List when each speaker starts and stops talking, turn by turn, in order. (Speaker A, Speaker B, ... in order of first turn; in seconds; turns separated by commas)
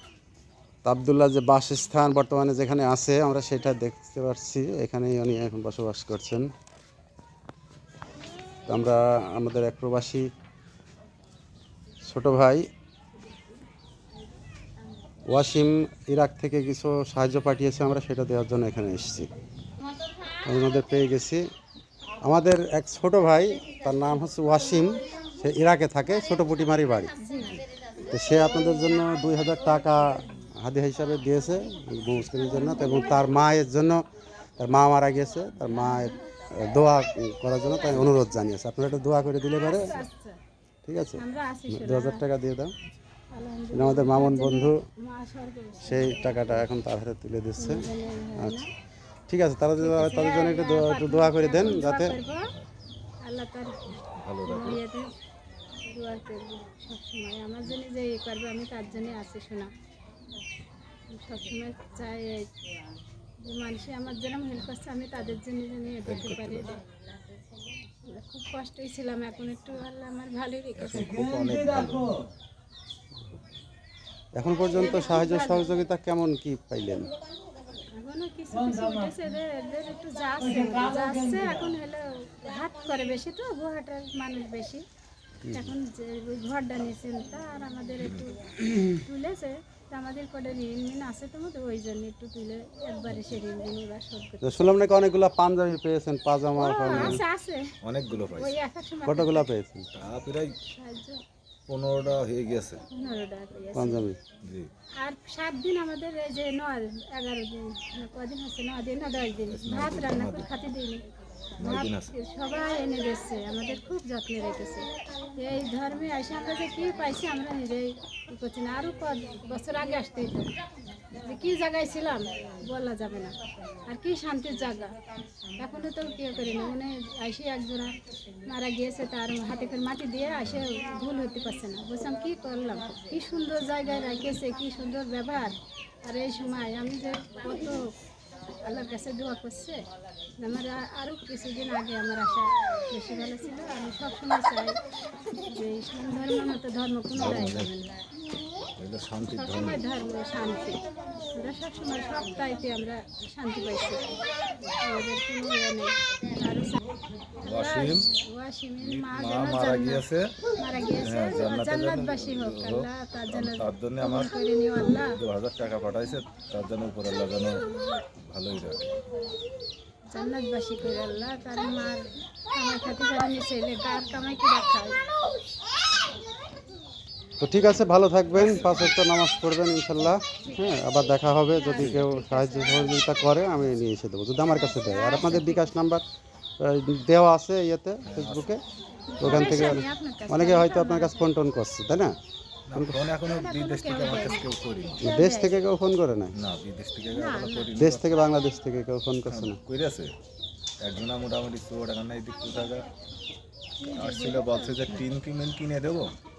Speaker A: 0.8-6.5, Speaker A: 8.7-10.3, Speaker A: 12.0-12.6, Speaker A: 15.2-19.3, Speaker A: 20.4-21.4, Speaker A: 22.2-27.1, Speaker B: 27.2-27.7, Speaker A: 28.0-34.0, Speaker B: 32.4-33.3, Speaker A: 34.6-40.0, Speaker B: 35.8-36.2, Speaker B: 39.6-40.4, Speaker A: 40.9-42.7, Speaker B: 41.2-42.2, Speaker B: 43.3-46.7, Speaker A: 43.7-44.8, Speaker A: 45.8-47.9, Speaker B: 47.6-48.7, Speaker A: 49.3-52.2, Speaker B: 49.8-52.5, Speaker C: 52.3-52.6, Speaker B: 53.2-53.8, Speaker C: 54.0-54.8, Speaker B: 54.4-55.1, Speaker B: 55.9-59.7, Speaker B: 61.1-62.5, Speaker B: 63.4-66.8, Speaker C: 66.0-66.7, Speaker B: 68.0-71.2, Speaker C: 70.8-72.1, Speaker A: 74.3-77.1, Speaker B: 74.6-75.7, Speaker B: 77.9-84.8, Speaker A: 85.5-85.7, Speaker B: 85.5-94.7, Speaker C: 88.0-88.3, Speaker A: 94.4-97.2, Speaker B: 96.5-97.7, Speaker C: 96.9-97.2, Speaker C: 97.8-98.5, Speaker B: 98.3-99.5, Speaker A: 99.0-99.9, Speaker C: 100.0-100.5, Speaker B: 100.6-101.2, Speaker C: 101.7-102.8, Speaker B: 102.9-104.1, Speaker A: 103.7-104.2, Speaker C: 104.4-104.7, Speaker B: 105.0-111.0, Speaker C: 109.5-110.5, Speaker B: 111.6-120.5, Speaker C: 111.6-112.1, Speaker B: 121.1-125.0, Speaker B: 125.6-137.9, Speaker B: 138.6-139.9, Speaker B: 140.4-144.8, Speaker B: 145.4-148.0, Speaker C: 147.2-147.7, Speaker C: 148.8-149.8, Speaker B: 149.2-156.8, Speaker B: 157.4-160.0, Speaker C: 157.4-158.1, Speaker C: 158.8-164.3, Speaker B: 160.6-165.2, Speaker C: 164.9-167.6, Speaker B: 167.5-168.0, Speaker C: 168.2-168.8, Speaker B: 170.1-175.0, Speaker A: 177.4-186.0, Speaker C: 178.3-179.0, Speaker B: 180.4-180.8, Speaker B: 181.5-183.3, Speaker B: 184.5-185.8, Speaker A: 186.6-188.6, Speaker C: 188.1-188.6, Speaker B: 189.1-191.3, Speaker A: 189.2-192.1, Speaker C: 189.3-189.6, Speaker C: 192.7-195.1, Speaker B: 193.2-194.5, Speaker B: 195.0-195.6, Speaker A: 195.0-196.3, Speaker C: 196.3-198.2, Speaker B: 197.1-197.7, Speaker A: 197.8-199.6, Speaker C: 199.3-200.1, Speaker C: 200.8-202.9, Speaker B: 203.8-205.0, Speaker C: 203.9-206.1